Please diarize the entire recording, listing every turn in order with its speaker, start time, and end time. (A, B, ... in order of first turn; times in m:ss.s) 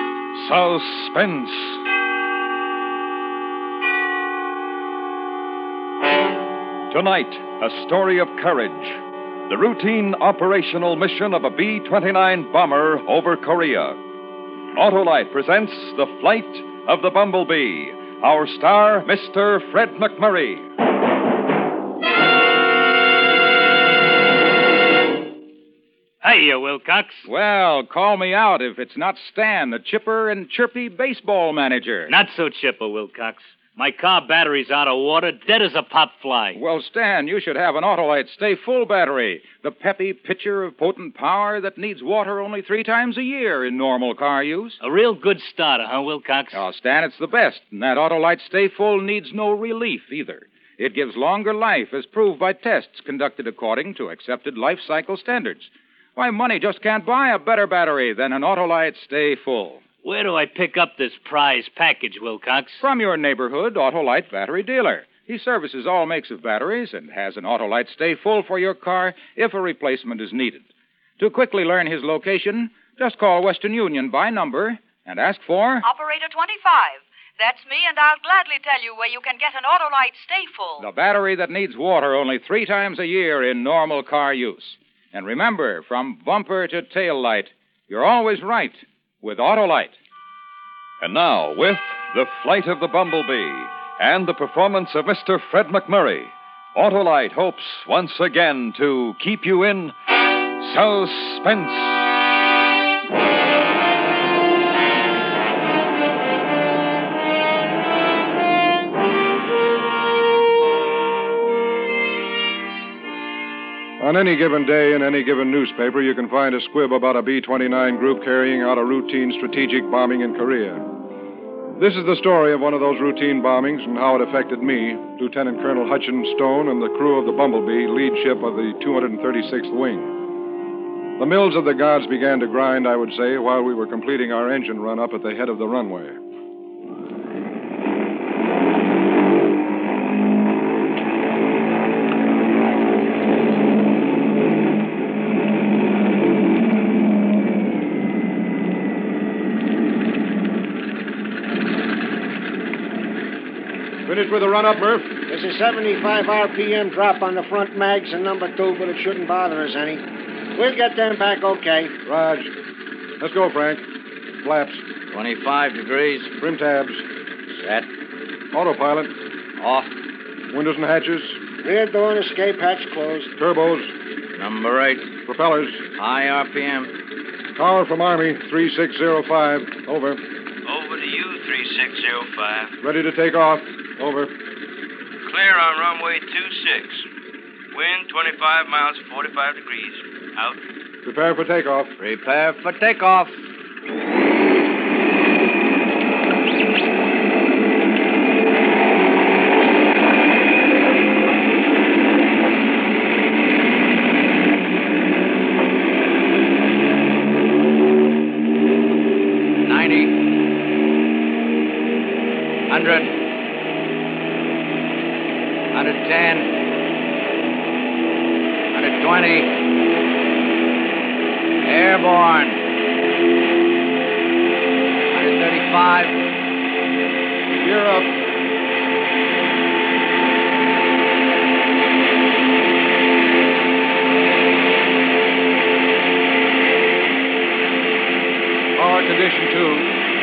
0:00.3-0:01.8 A
0:06.9-0:14.0 A
0:14.8-0:20.6 A
0:26.2-0:27.2 B
0:27.2-0:32.1 C
0:32.1-0:36.6 B
0:36.5-0:44.8 C
0:44.8-0:46.6 B
0:46.5-0:59.8 C
1:00.0-1:02.8 B
1:02.8-1:10.7 C
1:11.2-1:15.8 C
1:15.8-1:20.8 D
1:20.8-1:29.9 C
1:31.0-1:39.9 A
1:40.6-1:42.1 A
1:54.0-2:00.8 E
2:01.7-2:10.1 E
2:11.2-2:16.2 E
2:34.0-2:35.1 E
2:35.3-2:40.0 F
2:40.5-2:41.9 F
2:42.0-2:42.5 E
2:43.2-2:43.8 E
2:44.4-2:44.8 E
2:45.1-2:46.3 G
2:46.4-2:47.0 E
2:47.5-2:47.9 G
2:48.5-2:49.1 E
2:49.6-2:49.9 G
2:50.5-2:51.4 E
2:51.6-2:53.3 F
2:53.4-2:53.9 E
2:54.4-2:55.1 G
2:55.2-2:55.8 E
2:56.0-2:56.9 G
2:57.6-3:00.2 E
3:00.6-3:02.7 H
3:02.8-3:04.3 E
3:05.2-3:07.0 H
3:07.7-3:10.6 H
3:11.0-3:11.9 E
3:12.0-3:13.4 G
3:29.6-3:30.2 G
3:32.7-3:33.1 G
3:35.7-3:36.5 G
3:38.7-3:39.5 G
3:41.6-3:42.6 G
3:45.1-3:46.2 G
3:47.6-3:48.1 E
3:58.8-3:59.9 E